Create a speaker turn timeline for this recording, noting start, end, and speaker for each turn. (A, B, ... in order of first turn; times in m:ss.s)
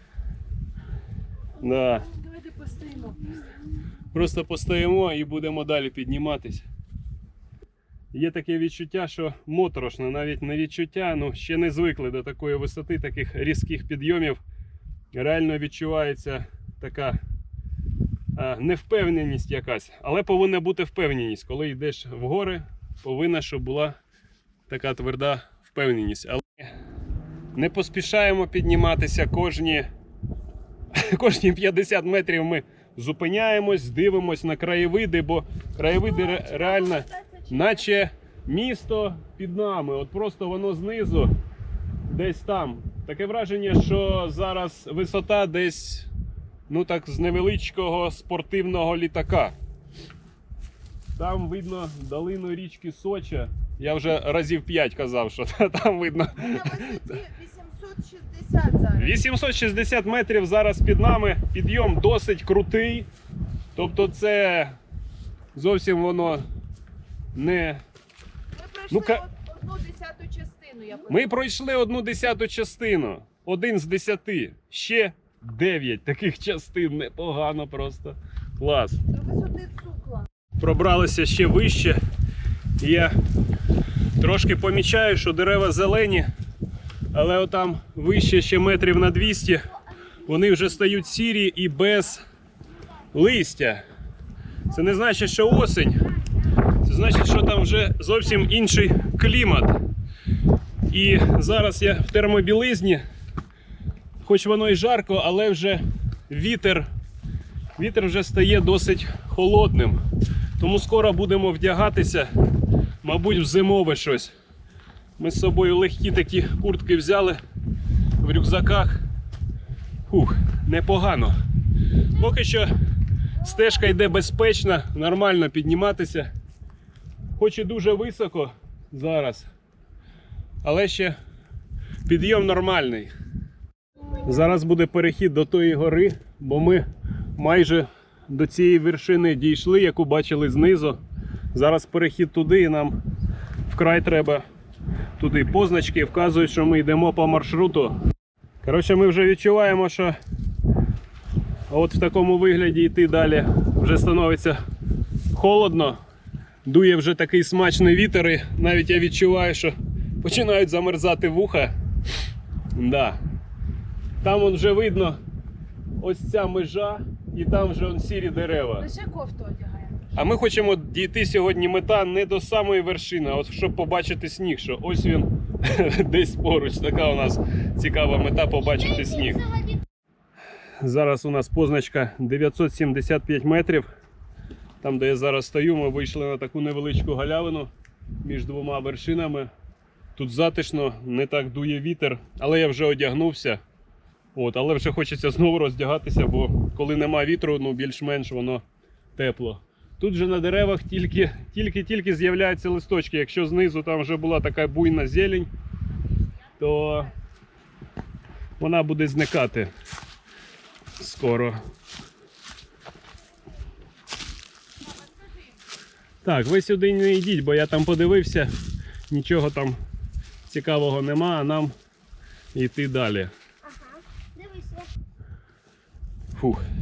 0:01.6-0:02.1 A
0:02.1-0:03.2 B
0:04.1-0:06.7 A
0:08.1-0:14.4 A
0:15.1-0:17.2 A
0:18.3-0:24.0 A
0:24.7-0:26.7 A
0:27.6-0:29.9 A
0:30.9-0:41.3 A
0:36.3-0:37.4 B
0:42.1-0:46.1 A
0:46.7-0:49.6 A
0:51.2-0:57.1 A
0:56.3-0:59.2 B
0:59.0-1:03.1 A
1:03.8-1:04.8 A
1:05.6-1:06.4 A
1:07.3-1:07.8 A
1:08.5-1:11.3 B
1:08.9-1:09.2 A
1:11.1-1:19.0 A
1:19.1-1:20.3 B
1:20.6-1:22.0 A
1:22.8-1:23.1 A
1:24.2-1:26.3 A
1:27.1-1:32.2 A
1:33.1-1:33.8 A
1:34.7-1:36.1 A
1:36.8-1:39.7 A
1:40.9-1:43.0 A
1:44.2-1:46.9 A
1:47.8-1:50.0 A
1:50.6-1:52.3 A
1:53.0-1:54.3 A
1:55.2-1:57.4 A
1:58.2-1:59.0 A
2:00.1-2:01.4 A
2:02.1-2:02.7 A
2:03.4-2:06.3 A
2:07.4-2:09.5 A
2:10.6-2:11.2 A
2:12.1-2:13.1 A
2:14.0-2:14.3 C
2:14.2-2:16.8 A
2:17.4-2:21.0 A
2:21.5-2:23.0 A
2:23.7-2:24.4 A
2:25.2-2:28.0 A
2:28.6-2:30.2 A
2:31.7-2:34.6 A
2:35.3-2:36.0 A
2:36.6-2:41.7 A
2:42.7-2:43.2 A
2:44.2-2:45.2 A
2:46.0-2:48.9 A
2:48.8-2:50.1 B
2:50.1-2:59.4 A
2:58.5-2:59.8 C
3:00.8-3:03.9 A
3:04.8-3:07.7 A
3:08.2-3:09.5 A
3:10.2-3:13.6 A
3:14.4-3:18.6 A
3:19.2-3:25.5 A
3:26.6-3:27.1 A
3:28.6-3:29.7 A
3:31.0-3:31.6 A
3:36.2-3:38.5 A
3:39.1-3:39.8 A
3:40.5-3:41.7 A
3:42.5-3:43.3 A
3:43.6-3:44.9 C
3:46.3-3:46.6 A